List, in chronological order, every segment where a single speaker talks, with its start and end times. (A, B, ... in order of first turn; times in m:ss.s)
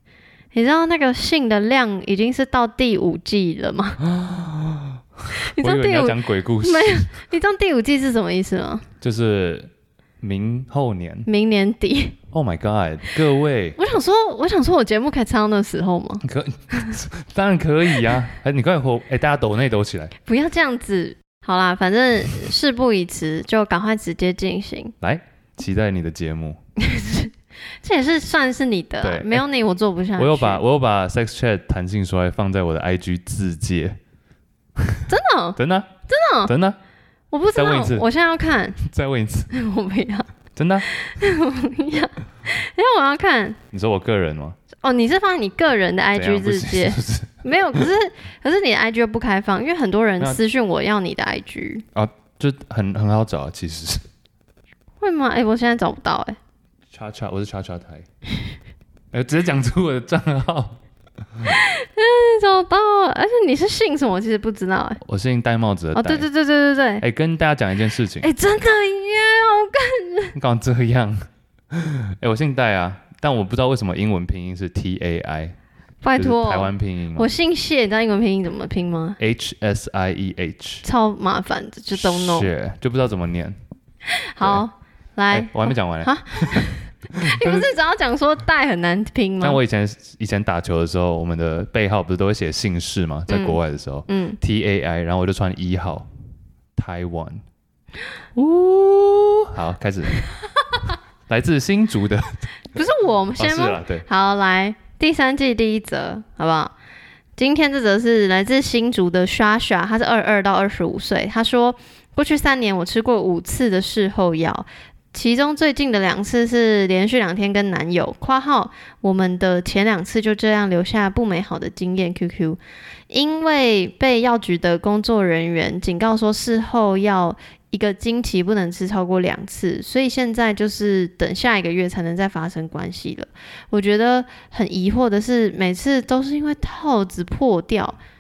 0:00.5-0:04.0 A
0:04.0-0:07.1 B
0:05.4-0:08.8 A
0:09.0-0:09.7 B
0:10.2-0:11.3 B
0:11.3-0:12.2 A
0:12.3-0:13.8 B
0:13.8-0:16.2 A
0:16.2-0:20.1 B
0:20.3-0:25.0 A
0:25.0-0:26.6 B
0:26.8-0:30.6 A
0:29.0-0:29.4 B
0:30.2-0:34.0 B
0:35.1-0:36.5 A
0:35.6-0:35.9 B
0:36.5-0:36.8 B
0:37.3-0:38.8 A
0:37.6-0:38.1 B
0:38.8-0:39.5 B
0:39.5-0:40.3 A
0:40.6-0:40.9 B
0:40.9-0:43.6 A
0:43.7-0:44.6 B
0:44.8-0:51.8 A
0:46.1-0:47.9 B
0:52.0-0:54.0 B
0:55.0-0:56.4 A
0:56.9-0:58.0 B
0:59.1-1:00.8 B
1:01.4-1:05.0 A
1:05.0-1:06.3 B
1:05.9-1:07.0 A
1:07.0-1:08.3 B
1:08.2-1:10.4 A
1:10.4-1:11.2 B
1:11.7-1:15.6 B
1:16.0-1:19.2 A
1:16.2-1:17.3 B
1:19.2-1:20.8 B
1:20.8-1:22.5 A
1:22.0-1:23.6 B
1:24.2-1:29.6 A
1:25.3-1:27.7 B
1:29.4-1:36.1 B
1:33.3-1:34.4 A
1:36.8-1:37.4 B
1:38.4-1:40.2 B
1:40.2-1:40.9 A
1:41.3-1:42.8 B
1:42.7-1:46.7 A
1:43.4-1:44.1 B
1:47.4-2:18.0 A